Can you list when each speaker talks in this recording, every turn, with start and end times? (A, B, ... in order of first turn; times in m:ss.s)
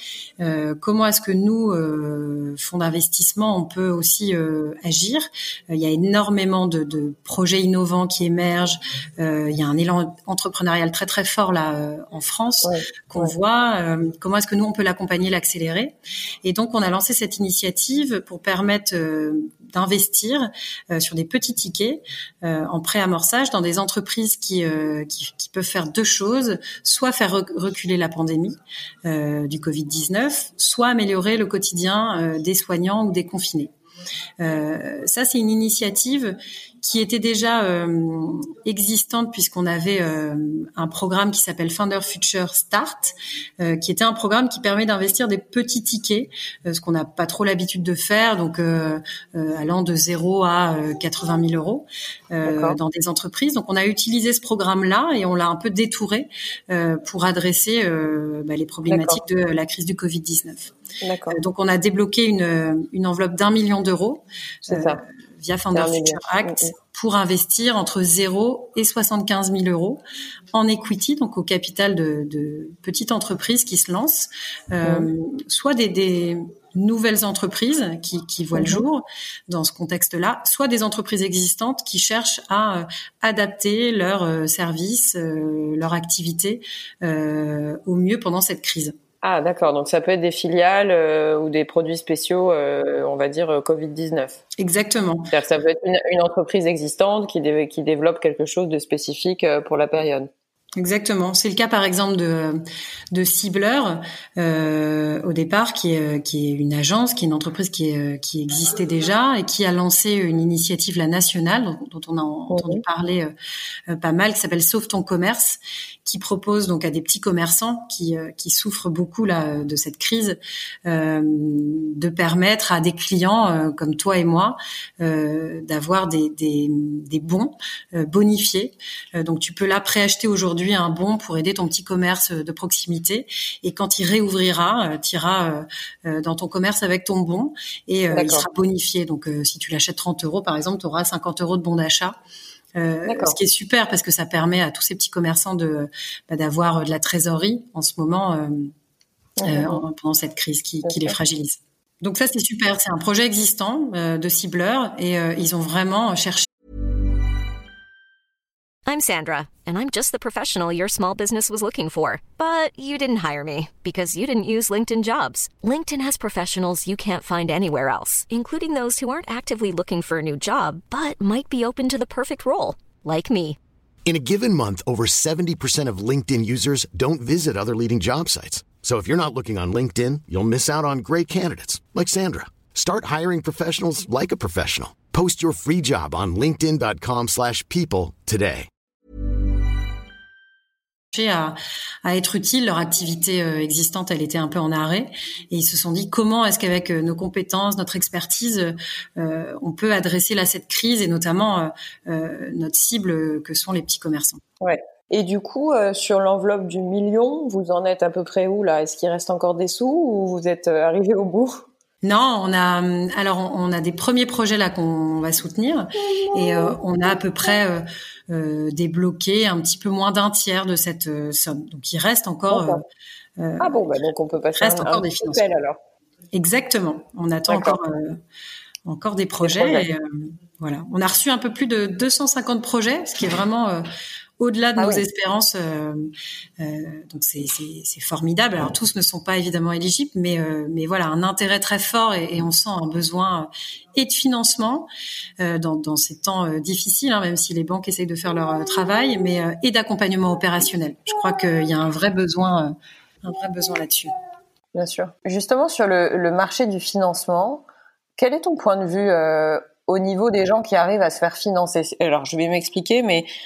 0:00.4-0:33.7 A
0:12.6-0:13.3 B
0:34.4-1:00.7 A
0:52.4-0:52.8 B
0:58.9-0:59.2 B
1:01.0-1:01.4 B
1:01.3-1:10.0 A
1:04.7-1:05.0 B
1:05.7-1:06.7 B
1:10.5-1:29.0 A
1:14.8-1:15.1 B
1:18.6-1:18.8 B
1:29.2-1:34.4 B
1:34.6-1:35.3 A
1:35.3-1:40.3 B
1:40.8-1:53.3 A
1:52.5-1:52.8 B
1:53.9-2:22.2 A
2:18.1-2:18.5 B
2:22.8-2:28.7 A
2:23.0-2:23.4 B
2:29.4-2:29.8 B
2:29.4-2:36.5 A
2:30.8-2:31.2 B
2:38.9-2:53.6 C
2:54.0-3:08.7 D
3:11.1-3:24.4 A
3:24.6-3:31.6 B
3:32.0-3:42.8 A
3:42.5-3:42.8 B
3:43.4-3:43.9 A
3:43.6-3:45.8 B
3:44.6-3:45.4 A
3:46.3-3:48.2 A
3:47.5-3:47.8 B
3:48.8-3:53.8 A
3:49.4-3:49.9 B
3:54.4-4:04.9 A
3:54.8-3:55.0 B
4:05.4-4:14.1 A
4:14.7-4:17.6 B
4:18.2-4:23.3 B